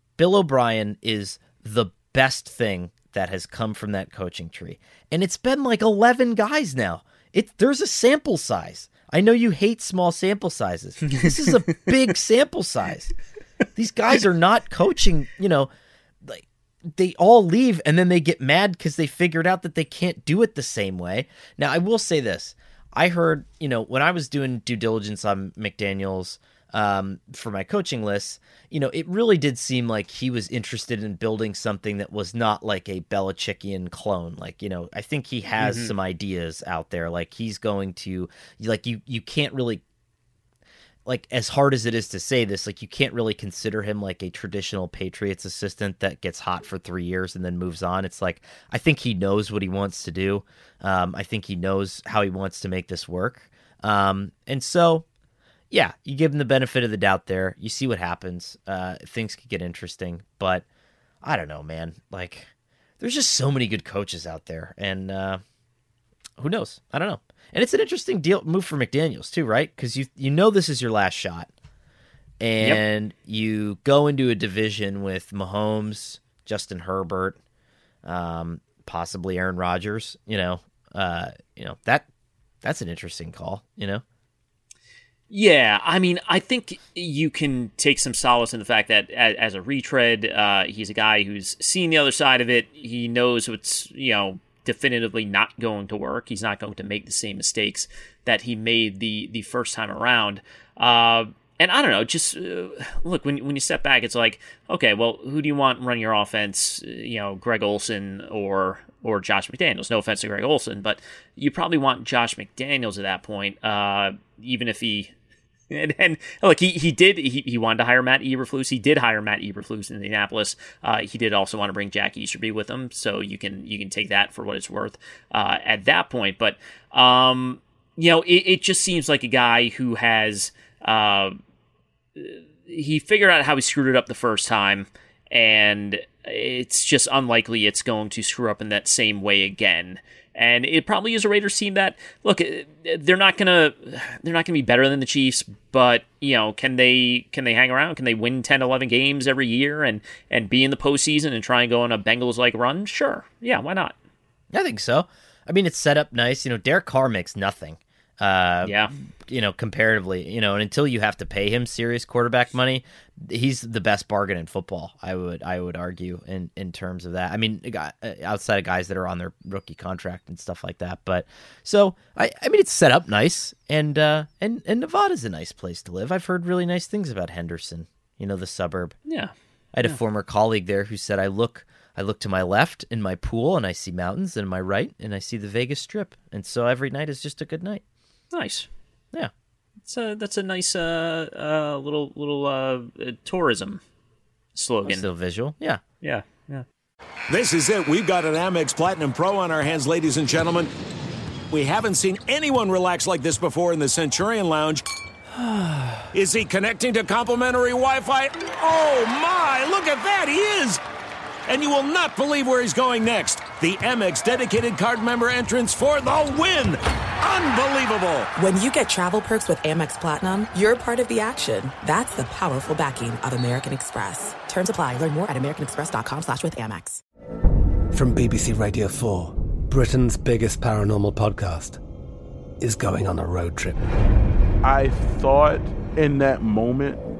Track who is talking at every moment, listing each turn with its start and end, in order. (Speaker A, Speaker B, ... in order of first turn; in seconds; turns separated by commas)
Speaker A: 0.2-13.1, Speaker A: 13.8-15.7, Speaker A: 16.2-39.8, Speaker B: 35.6-35.9, Speaker A: 41.0-55.0, Speaker A: 55.7-60.6, Speaker A: 61.2-65.4, Speaker A: 66.4-71.5, Speaker A: 72.4-77.4, Speaker A: 78.0-82.1, Speaker A: 82.6-84.0, Speaker B: 85.3-115.1, Speaker B: 115.7-131.4, Speaker B: 132.2-153.9, Speaker A: 154.5-178.9, Speaker B: 158.6-158.9, Speaker B: 179.1-179.3, Speaker A: 179.7-187.8, Speaker B: 188.3-188.7, Speaker B: 189.8-193.8, Speaker B: 194.5-195.0, Speaker A: 194.8-195.8, Speaker B: 196.0-196.6, Speaker C: 197.3-200.7, Speaker C: 201.5-204.8, Speaker C: 206.1-210.8, Speaker C: 211.5-218.3, Speaker D: 218.4-227.0, Speaker E: 227.9-231.8, Speaker E: 232.6-233.8, Speaker F: 234.6-237.0